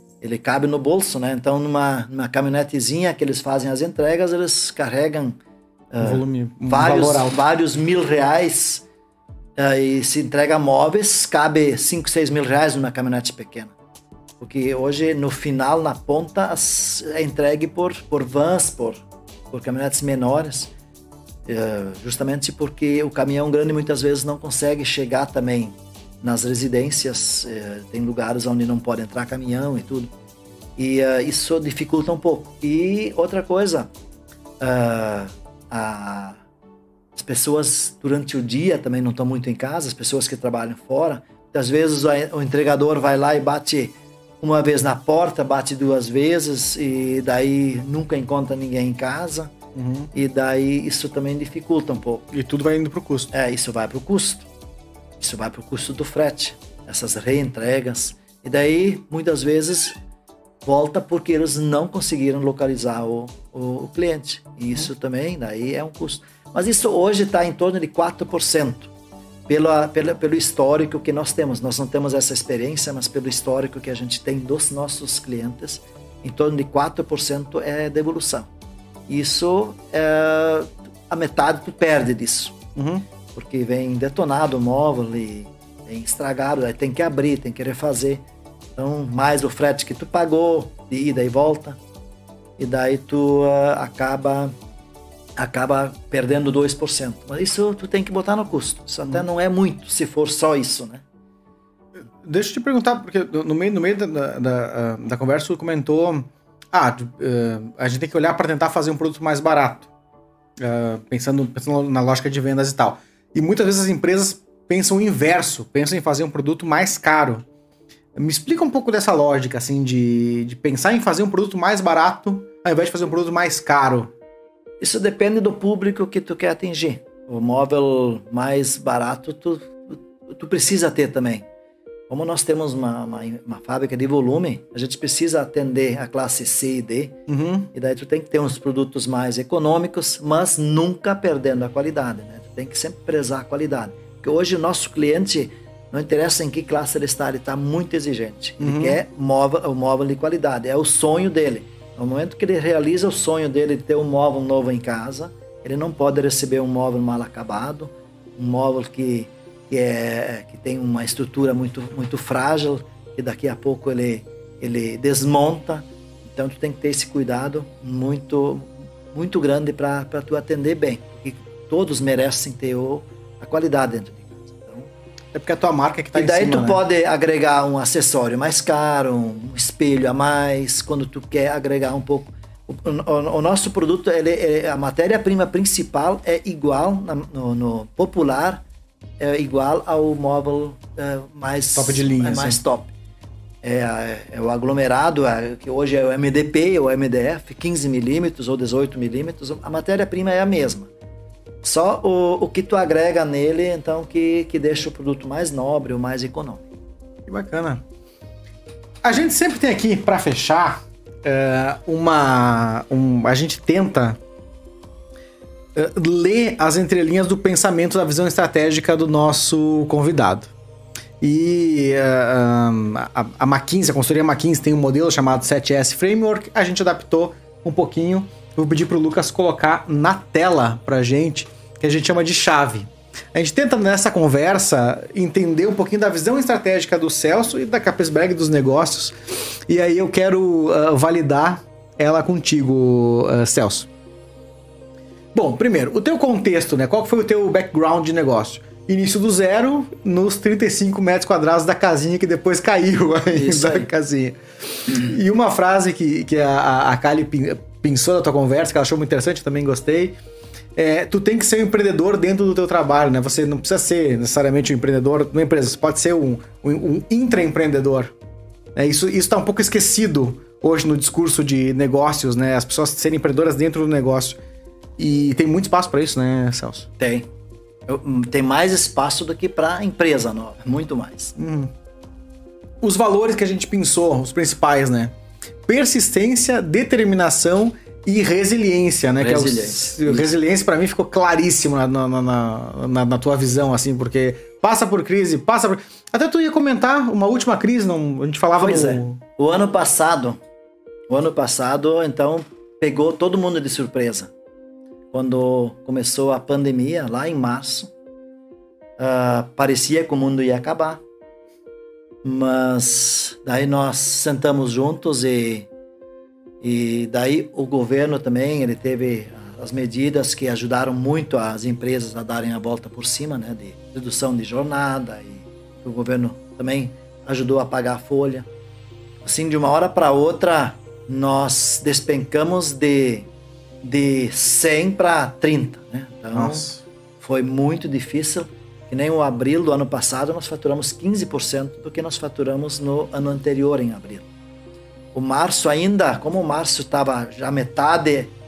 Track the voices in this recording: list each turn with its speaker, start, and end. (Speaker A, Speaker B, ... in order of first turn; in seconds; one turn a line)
Speaker A: 0.2-5.4
Speaker A: 5.9-8.8
Speaker B: 6.0-7.4
Speaker A: 9.6-13.7
Speaker A: 14.4-20.7
Speaker A: 21.5-30.1
Speaker A: 30.8-33.9
Speaker A: 34.6-36.4
Speaker A: 37.1-49.5
Speaker B: 49.8-50.1
Speaker A: 50.1-52.3
Speaker B: 52.3-53.3
Speaker A: 53.3-54.5
Speaker A: 55.2-59.9
Speaker A: 60.6-68.9
Speaker A: 69.5-78.5
Speaker A: 79.1-82.6
Speaker B: 82.8-83.0
Speaker A: 83.3-88.2
Speaker A: 88.8-91.8
Speaker A: 92.6-94.5
Speaker A: 95.4-101.0
Speaker B: 102.2-109.9
Speaker B: 110.6-117.5
Speaker B: 118.2-124.1
Speaker A: 124.8-131.4
Speaker A: 132.1-137.2
Speaker B: 137.3-137.7
Speaker A: 137.7-174.9
Speaker B: 148.6-149.0
Speaker B: 175.3-176.8
Speaker A: 176.1-188.6
Speaker A: 189.2-192.9
Speaker B: 191.8-192.6
Speaker A: 193.6-200.9
Speaker A: 201.6-206.7
Speaker B: 207.3-207.8
Speaker B: 209.0-214.2
Speaker B: 215.8-220.5
Speaker B: 221.2-243.9
Speaker B: 245.3-260.2
Speaker A: 253.3-253.9
Speaker B: 260.8-268.1
Speaker B: 268.8-274.4
Speaker B: 275.0-276.9
Speaker A: 277.0-277.3
Speaker A: 277.9-281.4
Speaker B: 281.4-281.7
Speaker B: 282.8-285.1
Speaker B: 285.7-299.2
Speaker A: 289.2-290.3
Speaker A: 298.6-300.4
Speaker A: 301.1-304.3
Speaker A: 305.1-307.9
Speaker A: 309.0-311.0
Speaker A: 312.2-315.7
Speaker A: 316.6-328.5
Speaker A: 329.2-333.3
Speaker A: 333.8-336.7
Speaker B: 336.3-336.8
Speaker A: 337.2-344.3
Speaker A: 345.1-348.3